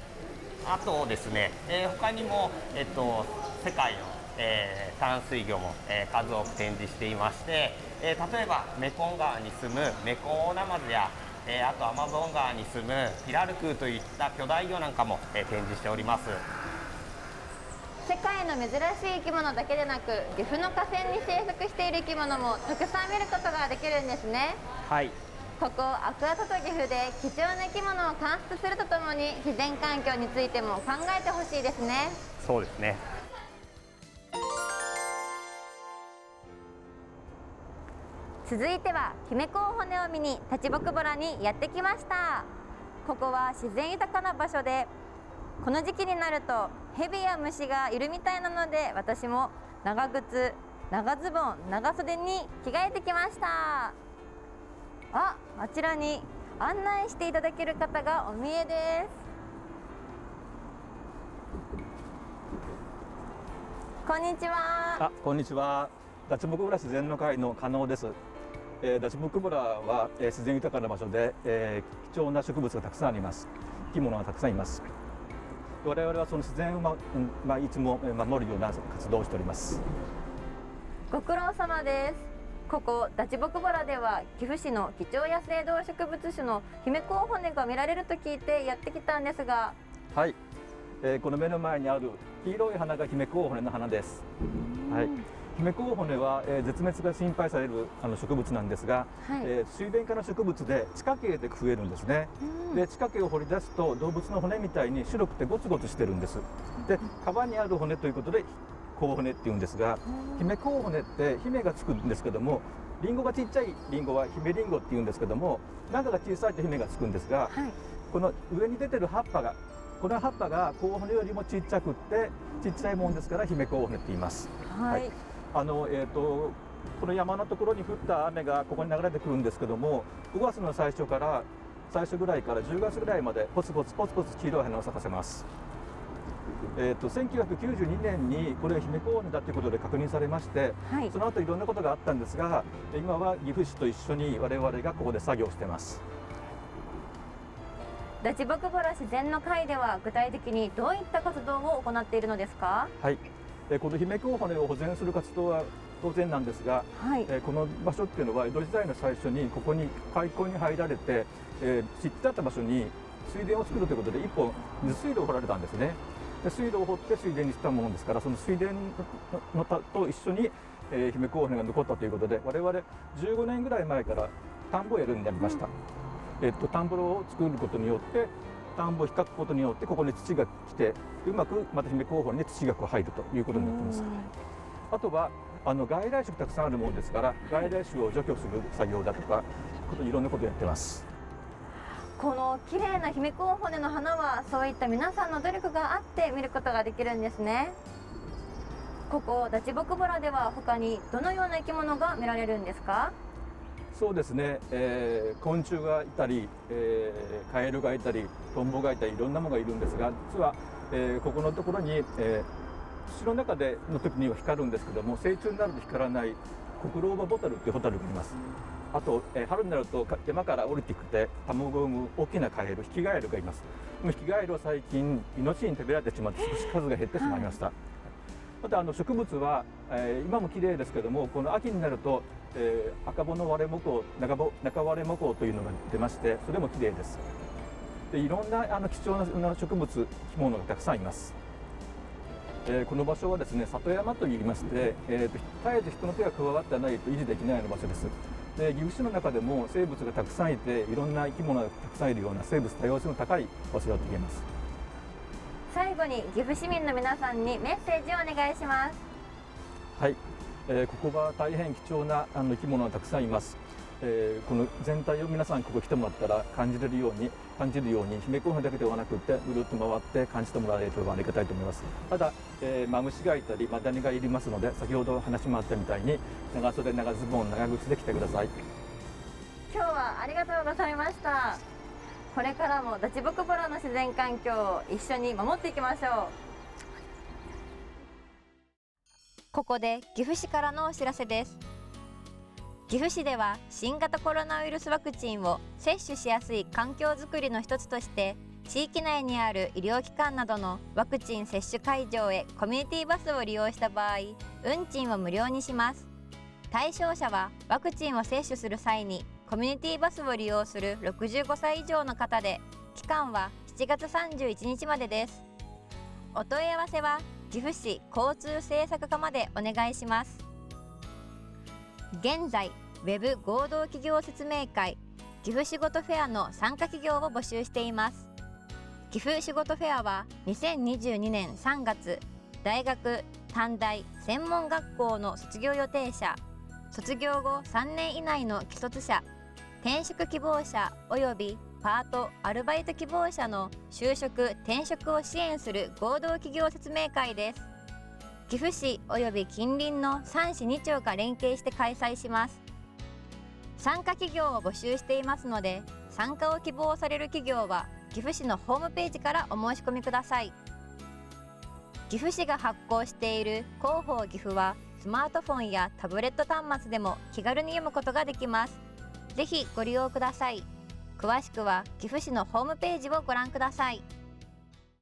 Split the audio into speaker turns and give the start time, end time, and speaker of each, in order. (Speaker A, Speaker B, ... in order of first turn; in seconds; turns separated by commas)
Speaker A: 0.6-16.4, Speaker B: 18.0-24.6, Speaker A: 24.9-25.1, Speaker B: 25.6-32.2, Speaker A: 32.4-33.0, Speaker B: 38.4-42.5, Speaker B: 43.0-44.9, Speaker B: 45.6-54.0, Speaker B: 55.1-59.2, Speaker B: 64.0-65.0, Speaker C: 65.0-68.2, Speaker C: 68.8-74.9, Speaker C: 75.8-79.8, Speaker B: 81.1-89.8, Speaker C: 91.0-94.2, Speaker B: 94.5-95.2, Speaker C: 94.9-117.5, Speaker B: 99.2-99.5, Speaker B: 102.4-102.8, Speaker B: 110.1-110.5, Speaker B: 117.5-117.8, Speaker C: 118.1-135.4, Speaker B: 124.7-125.1, Speaker C: 136.8-146.0, Speaker B: 140.9-141.1, Speaker B: 148.2-152.9, Speaker C: 153.0-175.7, Speaker B: 156.9-157.3, Speaker C: 176.4-184.1, Speaker B: 183.5-184.3, Speaker C: 184.9-191.0, Speaker B: 192.2-197.8, Speaker B: 199.1-203.1, Speaker C: 203.9-212.5, Speaker C: 213.1-218.3, Speaker C: 218.9-227.7, Speaker B: 227.2-227.6, Speaker C: 228.6-237.2, Speaker C: 238.1-241.3, Speaker C: 242.6-254.4, Speaker B: 255.7-259.0, Speaker C: 259.9-278.5, Speaker B: 279.7-281.6, Speaker B: 282.3-286.3, Speaker B: 289.5-291.6, Speaker B: 292.9-306.1, Speaker B: 306.7-315.4, Speaker B: 316.3-320.4, Speaker B: 322.1-328.3, Speaker B: 329.1-336.4, Speaker B: 336.9-339.2, Speaker B: 339.8-347.7, Speaker B: 348.5-352.6, Speaker B: 353.8-360.5, Speaker B: 362.1-368.8, Speaker B: 369.3-374.0